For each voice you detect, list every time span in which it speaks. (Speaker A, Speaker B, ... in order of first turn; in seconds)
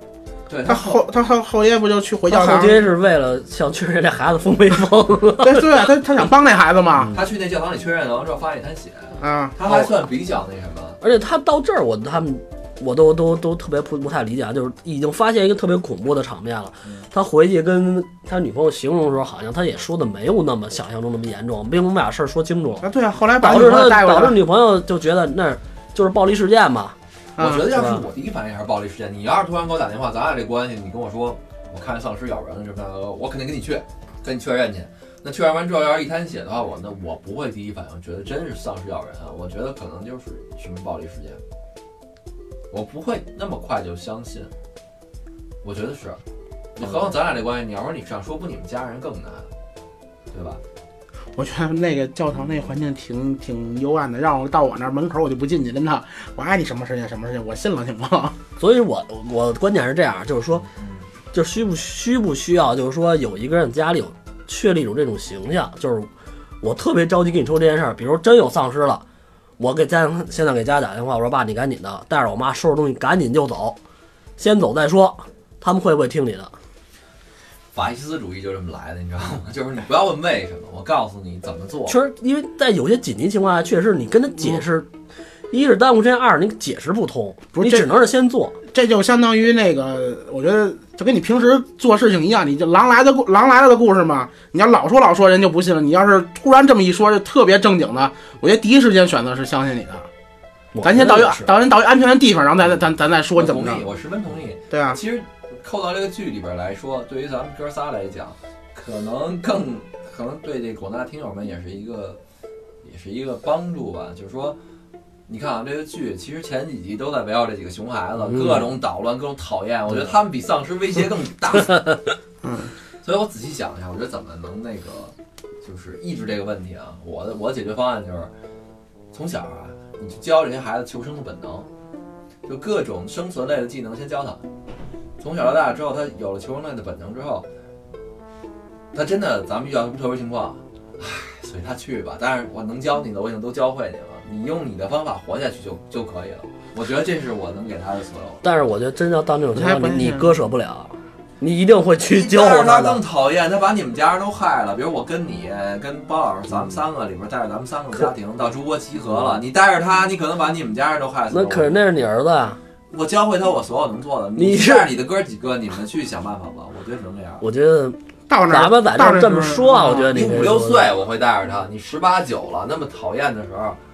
Speaker A: 0.5-1.0, 7.1-11.0, 27.4-41.4, 42.7-44.5, 45.6-46.2, 46.8-49.5, 50.3-50.6, 60.7-61.0, 77.7-82.0, 103.3-112.2, 112.8-114.6, 115.3-122.0, 123.0-128.3, 129.1-131.7, 132.4-134.4, 135.2-137.4, 138.9-148.4, 152.1-161.7, 162.9-167.4, 170.1-173.8
Speaker B: 0.7-2.8, 5.4-7.1, 9.2-9.9, 22.8-24.4, 27.4-27.6, 51.4-58.4, 87.5-87.9, 88.7-100.1, 100.8-103.8, 104.7-105.0, 122.4-122.7, 149.5-150.3, 168.3-170.1
Speaker C: 2.3-5.6, 11.0-22.9, 23.4-26.9, 27.5-28.0, 58.6-60.6, 61.3-66.1, 66.6-69.0, 69.6-73.8, 74.4-76.5, 81.9-84.9, 85.5-88.5, 100.7-101.5, 118.3-118.7, 148.4-153.0, 161.3-162.6, 164.4-164.9, 167.4-170.9